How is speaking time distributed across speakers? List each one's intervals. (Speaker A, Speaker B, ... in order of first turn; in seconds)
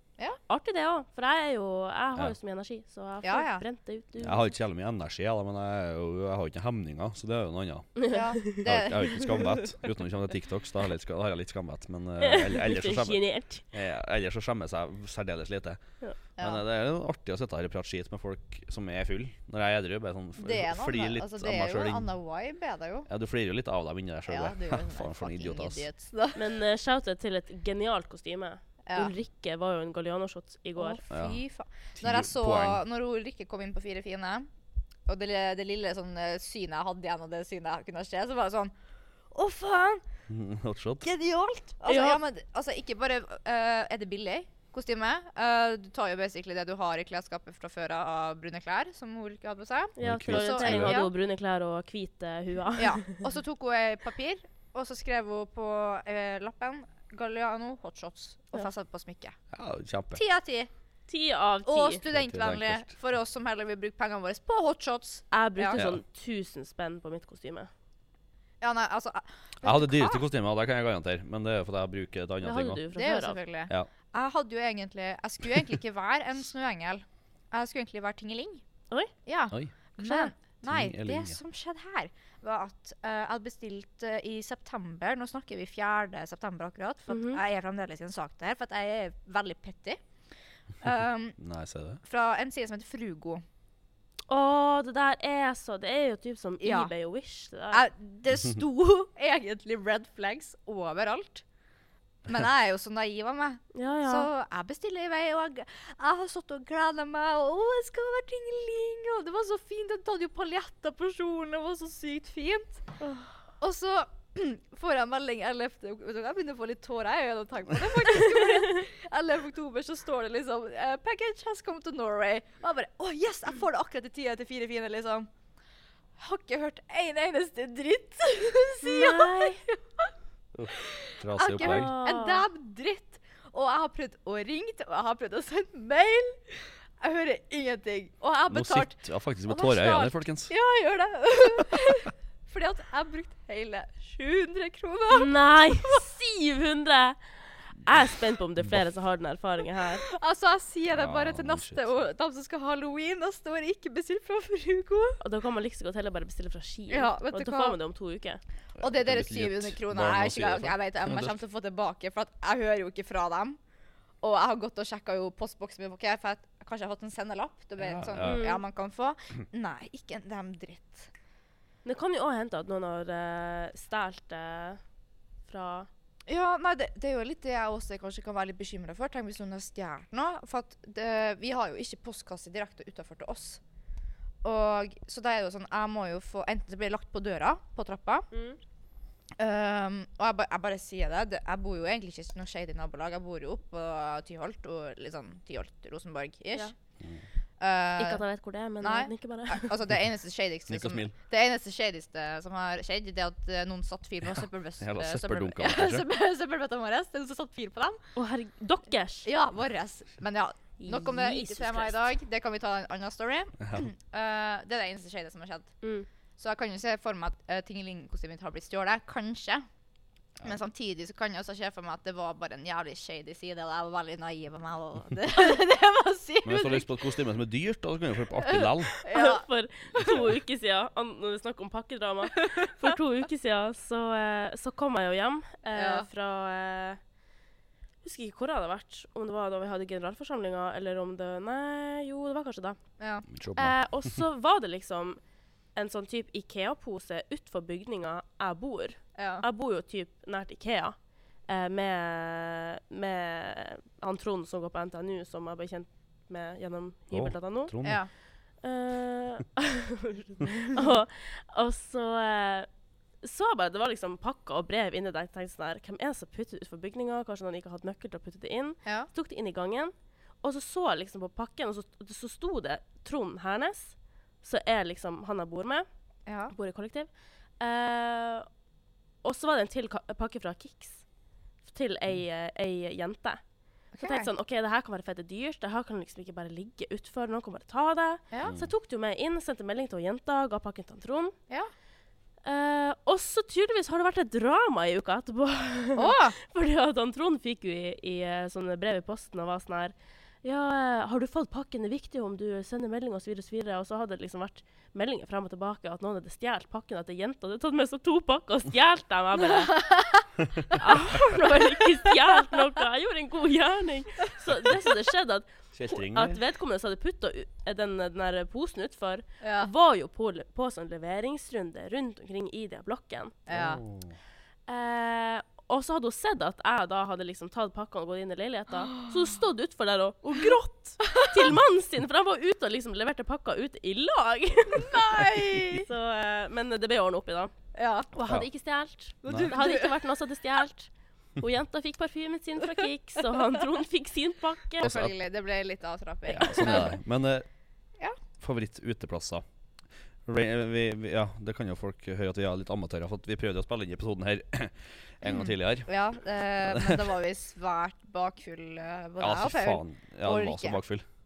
Speaker A: 0.5-4.5, 8.0-8.6, 12.2-13.7, 26.4-31.0, 41.9-42.2, 50.0-53.2, 61.1-62.0, 65.3-67.7, 72.4-73.4, 80.0-80.3, 87.1-87.4, 94.3-97.8, 103.7-104.3, 113.0-113.3, 128.8-129.6, 131.6-132.5, 145.1-147.2, 147.8-150.1, 155.2-158.4, 168.2-168.6, 171.8-174.8, 175.5-175.9, 188.3-188.6, 198.0-199.8, 208.2-209.3, 210.8-212.1, 215.8-216.1, 229.0-237.0, 238.0-242.8, 243.6-245.2, 245.8-257.8, 258.6-262.7, 263.2-269.9, 270.4-275.9, 276.5-277.1, 277.6-278.5, 279.2-281.0, 281.6-283.4, 284.0-291.4, 292.4-309.9, 310.7-323.4, 324.7-337.5, 338.1-344.9
Speaker B: 3.2-3.6, 8.0-9.4, 16.4-16.6, 20.4-23.1, 24.3-26.4, 28.9-29.1, 30.8-34.5, 35.1-38.7, 39.3-40.0, 41.0-51.1, 52.8-59.4, 60.1-60.7, 61.6-65.8, 68.6-70.2, 73.0-78.6, 79.3-90.0, 90.8-91.4, 92.0-93.4, 96.6-96.9, 97.7-101.4, 102.3-112.9, 113.6-125.3, 126.2-130.1, 130.7-145.3, 145.8-146.1, 150.1-155.2, 156.9-157.8, 158.8-163.6, 164.2-171.1, 176.3-183.6, 184.4-188.3, 189.4-196.7, 197.6-198.2, 198.8-208.0, 209.2-215.7, 216.4-219.7, 220.4-226.9, 228.4-230.1, 235.7-236.1, 243.0-243.3, 249.2-249.4, 257.8-258.1, 276.3-276.5, 283.9-284.3, 296.0-296.4, 309.7-310.2, 319.4-319.7, 323.5-323.8, 334.8-335.9, 337.8-338.1, 339.2-339.9, 344.8-346.9, 355.2-360.8
Speaker C: 4.2-13.2, 13.7-15.8, 16.4-22.1, 23.1-25.9, 31.1-31.4, 32.0-32.8, 40.3-41.0, 50.0-51.0, 59.5-60.2, 62.1-62.9, 65.8-66.0, 69.6-72.8, 80.6-81.4, 91.4-92.0, 130.6-131.9, 138.5-140.5, 150.9-151.9, 158.8-161.4, 167.8-168.4, 200.7-201.1, 204.8-206.1, 213.6-213.9, 226.4-228.9, 243.3-243.8, 257.1-258.0, 288.4-288.7, 315.7-316.4, 323.5-324.1, 339.3-339.5, 344.8-345.1, 346.3-347.5, 348.4-349.4, 350.3-355.9, 356.6-357.0, 359.2-361.1